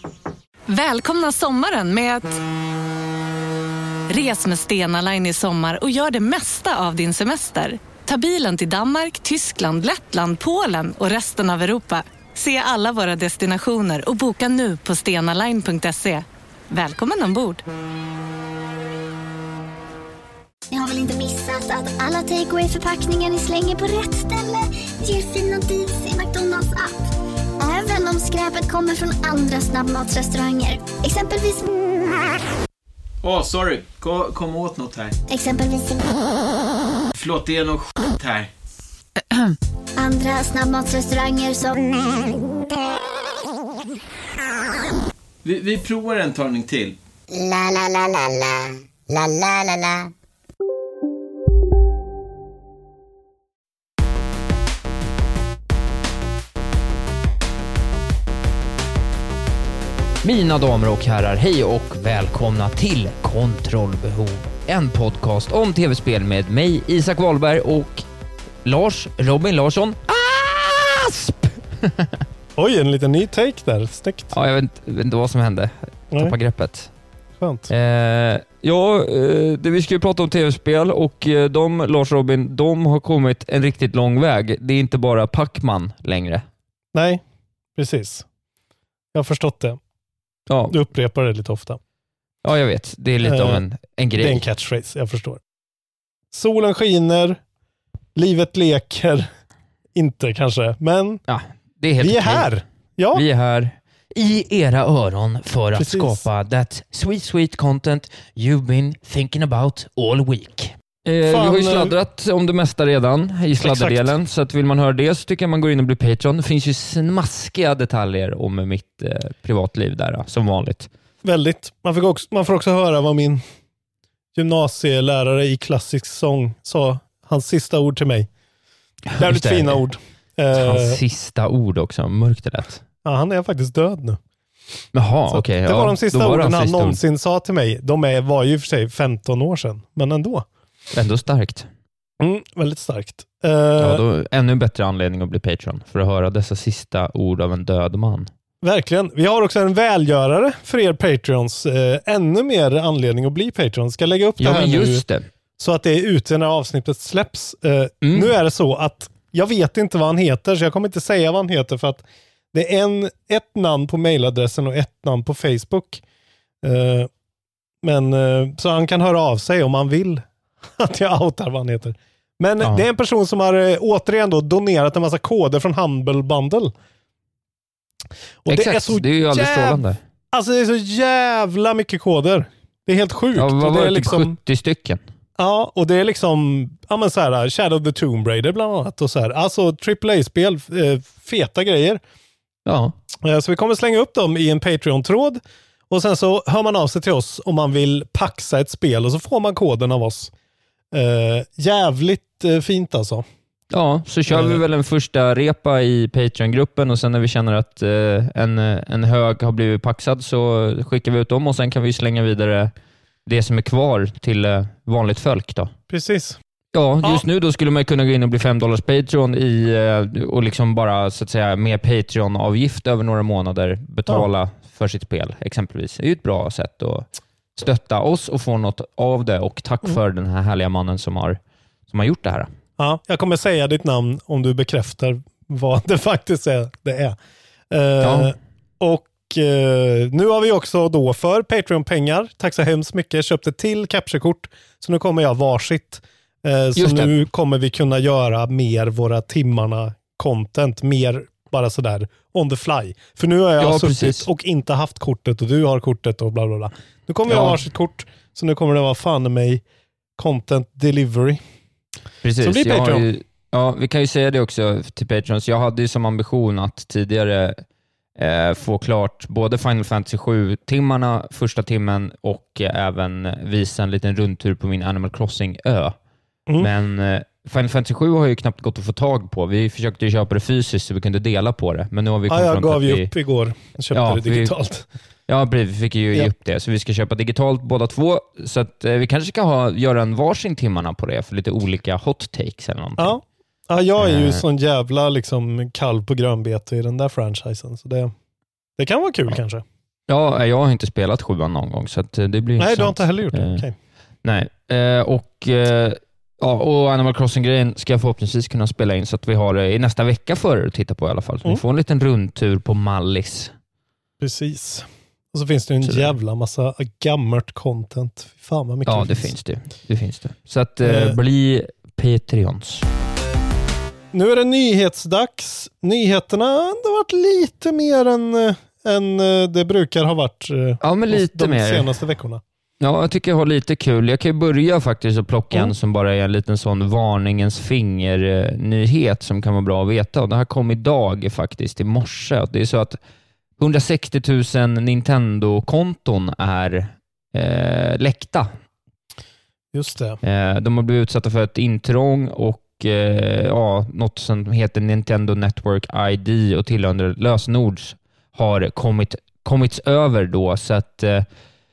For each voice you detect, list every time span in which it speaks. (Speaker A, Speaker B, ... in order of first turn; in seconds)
Speaker A: 0.7-2.3, 4.1-17.6
Speaker B: 20.7-27.1, 27.6-31.7, 35.3-36.1, 40.0-42.4
Speaker C: 33.2-35.2, 37.2-38.5, 45.4-47.0
Speaker D: 60.2-68.0, 68.7-72.2, 74.3-76.9, 77.7-86.4, 90.5-90.8, 92.4-94.4, 101.3-102.5, 103.1-120.9, 129.1-129.8, 130.5-132.8, 134.9-137.0, 140.9-141.7, 143.8-148.3, 154.4-155.3, 158.0-158.3, 178.5-180.0, 183.3-185.0, 192.7-192.9, 203.7-212.7, 213.3-215.7, 216.7-232.5, 238.0-238.3, 246.8-247.2, 253.6-254.3, 257.3-257.6, 262.2-267.6, 268.2-276.0, 276.6-283.1, 283.9-284.5, 285.3-293.2, 294.0-294.4, 300.1-303.6, 304.2-313.5, 315.8-316.1, 318.9-322.9, 330.8-331.9, 332.8-343.0, 343.6-348.5, 350.2-361.3
Speaker E: 72.6-74.3, 77.4-77.7, 86.9-87.2, 87.8-88.3, 89.1-89.8, 90.7-91.8, 93.2-93.6, 94.2-95.4, 96.3-97.4, 98.2-99.3, 100.0-101.2, 102.0-103.2, 105.8-106.2, 111.3-112.0, 113.6-114.1, 121.2-123.4, 124.3-128.3, 129.2-131.0, 133.1-134.2, 135.3-140.5, 142.2-144.0, 148.6-155.0, 155.6-166.0, 166.6-167.1, 167.8-176.7, 178.4-184.4, 185.4-192.0, 193.2-200.3, 200.9-203.2, 204.3-204.6, 215.9-216.4, 232.8-237.2, 237.7-259.6, 260.2-261.4, 262.4-263.1, 282.3-284.9, 293.0-298.1, 298.8-299.6, 302.6-303.8, 314.2-319.3, 320.8-321.2, 324.1-332.4, 349.7-350.2